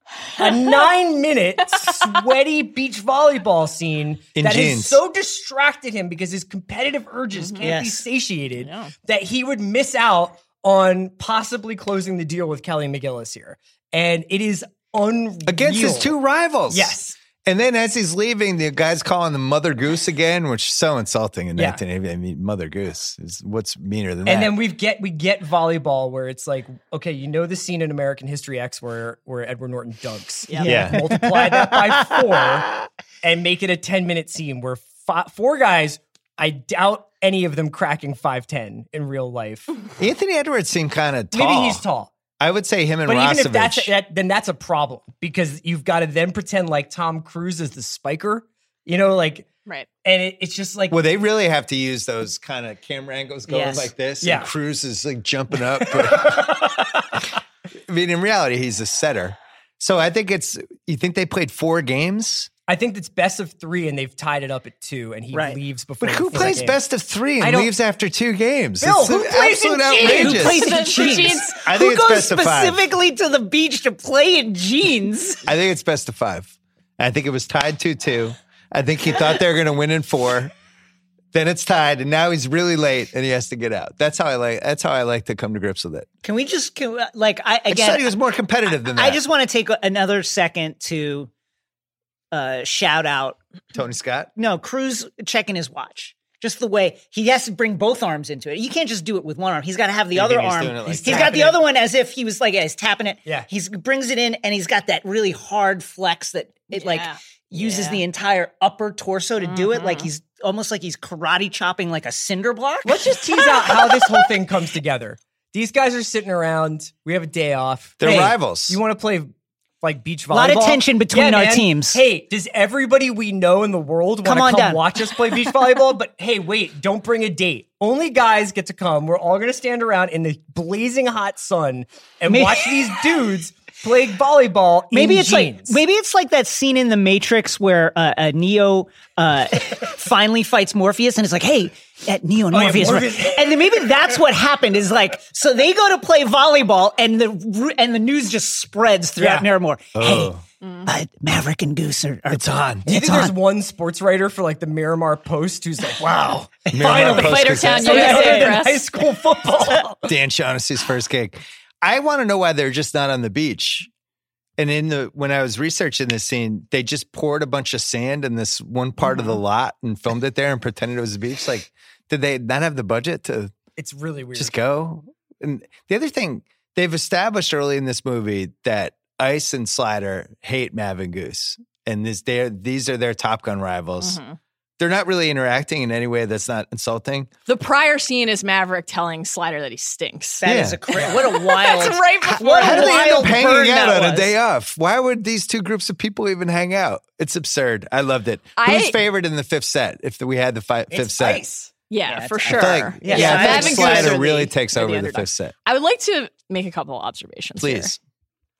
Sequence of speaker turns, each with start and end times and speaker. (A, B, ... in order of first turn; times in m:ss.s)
0:00.4-0:16.1 A
0:04.3-0:05.0 B
0:07.3-0:07.7 C
0:07.6-0:08.0 D
0:08.6-0:08.9 C
0:15.4-0:24.6 B
0:16.7-0:17.2 A
0:21.6-0:21.8 A
0:24.2-0:39.7 A
0:30.5-0:32.2 D
0:30.6-0:31.0 B
0:40.0-0:41.8 B
0:41.3-0:42.1 A
0:42.4-0:43.9 B
0:43.0-0:49.5 A
0:50.0-0:51.0 A
0:50.9-0:56.6 B
0:53.5-0:53.9 D
0:54.2-0:54.5 A
0:55.8-0:56.9 A
0:57.9-1:02.5 B
1:02.7-1:06.8 A
1:05.3-1:05.6 D
1:06.0-1:10.6 B
1:07.4-1:07.7 A
1:08.8-1:11.3 A
1:10.0-1:15.4 D
1:10.2-1:11.6 C
1:11.6-1:12.8 B
1:15.4-1:20.5 B
1:21.3-1:26.0 B
1:26.2-1:28.1 D
1:27.7-1:29.2 B
1:28.7-1:31.3 D
1:32.3-1:33.4 D
1:33.7-1:34.3 B
1:34.4-1:53.2 D
1:40.1-1:41.4 B
1:40.9-1:41.6 A
1:46.7-1:48.0 C
1:49.4-1:50.1 C
1:52.8-2:15.8 A
1:58.0-1:58.8 B
1:58.0-1:58.3 D
2:00.3-2:02.0 D
2:04.2-2:04.8 D
2:12.3-2:12.8 D
2:14.9-2:30.3 D
2:22.5-2:24.0 A
2:29.2-2:29.5 A
2:29.9-2:30.4 B
2:30.6-2:30.9 C
2:30.8-2:33.3 D
2:32.3-2:32.9 B
2:32.8-2:40.1 A
2:36.7-2:38.1 B
2:36.8-2:37.1 D
2:37.0-2:38.8 C
2:37.8-2:38.6 D
2:40.0-2:43.9 B
2:44.6-2:53.5 B
2:49.1-2:49.4 C
2:53.8-2:54.5 A
2:54.3-3:04.2 B
3:04.0-3:04.4 C
3:04.8-3:07.3 B
3:07.5-3:10.4 C
3:10.4-3:14.3 D
3:10.4-3:10.8 B
3:11.0-3:13.4 C
3:12.2-3:21.4 B
3:18.6-3:19.0 C
3:20.9-3:21.7 A
3:21.9-3:27.9 C
3:22.0-3:24.2 D
3:22.5-3:25.5 B
3:27.6-3:28.0 B